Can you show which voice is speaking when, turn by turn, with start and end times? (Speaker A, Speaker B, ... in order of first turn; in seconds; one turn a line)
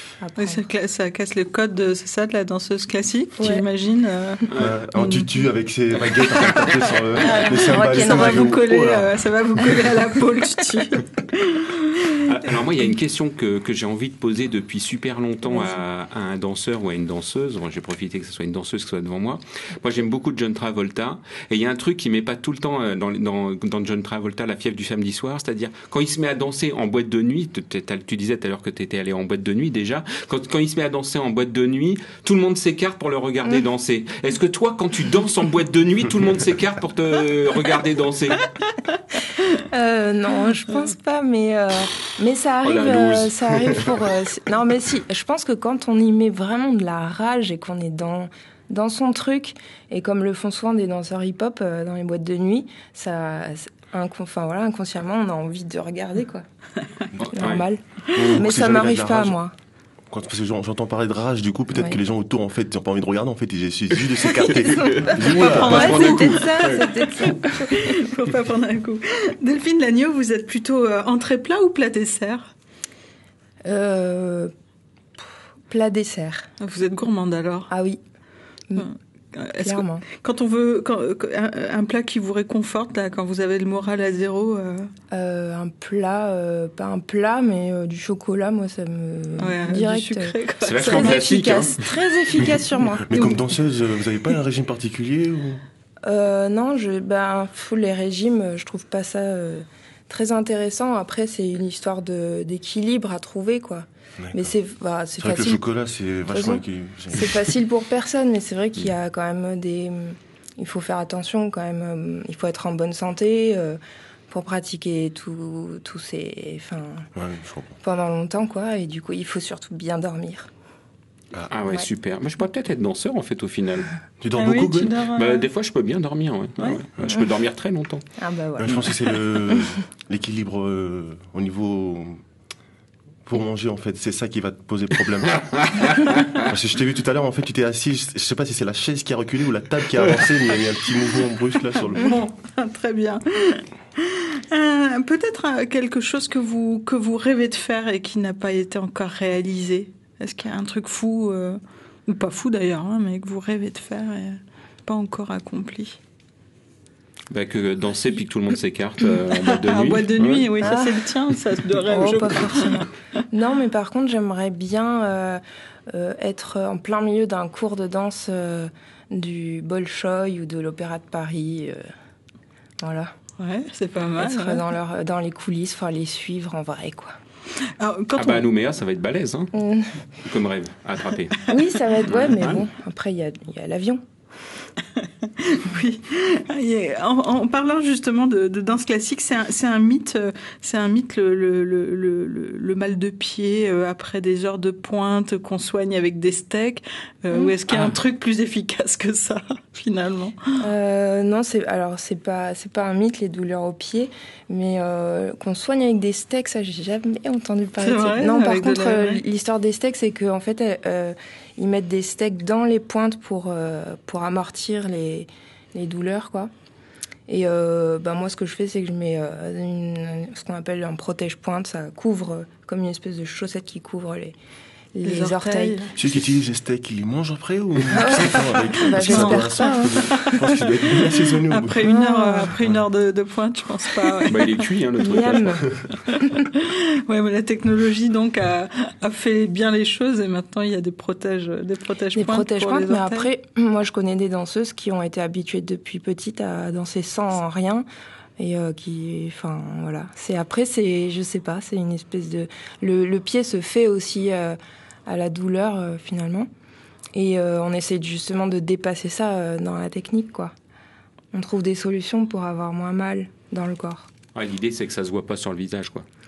Speaker A: 0.2-0.6
Speaker B: 0.4-5.5
Speaker A: 3.4-3.6
Speaker C: 4.5-4.8
Speaker D: 4.5-9.2
Speaker B: 6.2-12.2
Speaker A: 7.2-8.6
Speaker C: 12.2-38.5
Speaker A: 15.5-15.8
Speaker B: 38.6-39.2
Speaker A: 39.5-56.4
Speaker C: 42.6-44.0
Speaker C: 57.2-57.7
Speaker A: 57.2-59.5
Speaker D: 58.1-59.4
Speaker D: 60.1-66.4
Speaker A: 64.2-67.7
Speaker C: 65.0-66.8
Speaker B: 66.1-72.5
Speaker A: 73.6-74.5
Speaker A: 75.7-76.5
Speaker B: 76.6-77.7
Speaker A: 77.7-78.0
Speaker B: 78.7-84.9
Speaker A: 79.6-80.0
Speaker A: 85.1-93.0
Speaker B: 89.4-91.2
Speaker C: 90.6-92.5
Speaker D: 93.0-95.6
Speaker B: 93.1-93.5
Speaker A: 96.0-105.6
Speaker D: 104.2-104.5
Speaker D: 105.2-107.5
Speaker A: 106.3-117.1
Speaker D: 117.1-117.8
Speaker A: 117.8-120.5
Speaker C: 121.5-123.9
Speaker D: 124.2-124.9
Speaker B: 124.3-125.4
Speaker C: 125.1-128.0
Speaker A: 128.2-128.9
Speaker D: 128.6-132.2
Speaker D: 133.2-142.2
Speaker B: 141.8-156.0
Speaker C: 157.3-160.7
Speaker B: 159.3-162.8
Speaker A: 160.6-161.0
Speaker A: 161.9-171.8
Speaker A: 172.8-173.1
Speaker B: 173.4-174.6
Speaker A: 174.2-177.1
Speaker B: 177.8-178.5
Speaker C: 178.2-179.5
Speaker A: 179.5-179.9
Speaker C: 180.2-181.5
Speaker A: 181.5-184.0
Speaker C: 182.0-182.6
Speaker B: 185.0-200.5
Speaker A: 200.6-216.5
Speaker B: 207.8-209.2
Speaker A: 217.3-224.3
Speaker A: 224.9-225.8
Speaker B: 225.0-225.9
Speaker D: 225.9-231.8
Speaker A: 227.9-230.0
Speaker B: 228.8-230.7
Speaker B: 231.4-234.6
Speaker A: 231.8-232.5
Speaker C: 234.3-235.6
Speaker A: 235.0-235.7
Speaker B: 236.5-243.3
Speaker A: 242.2-247.8
Speaker A: 248.4-256.5
Speaker A: 257.1-260.5
Speaker A: 261.3-264.1
Speaker C: 264.3-266.0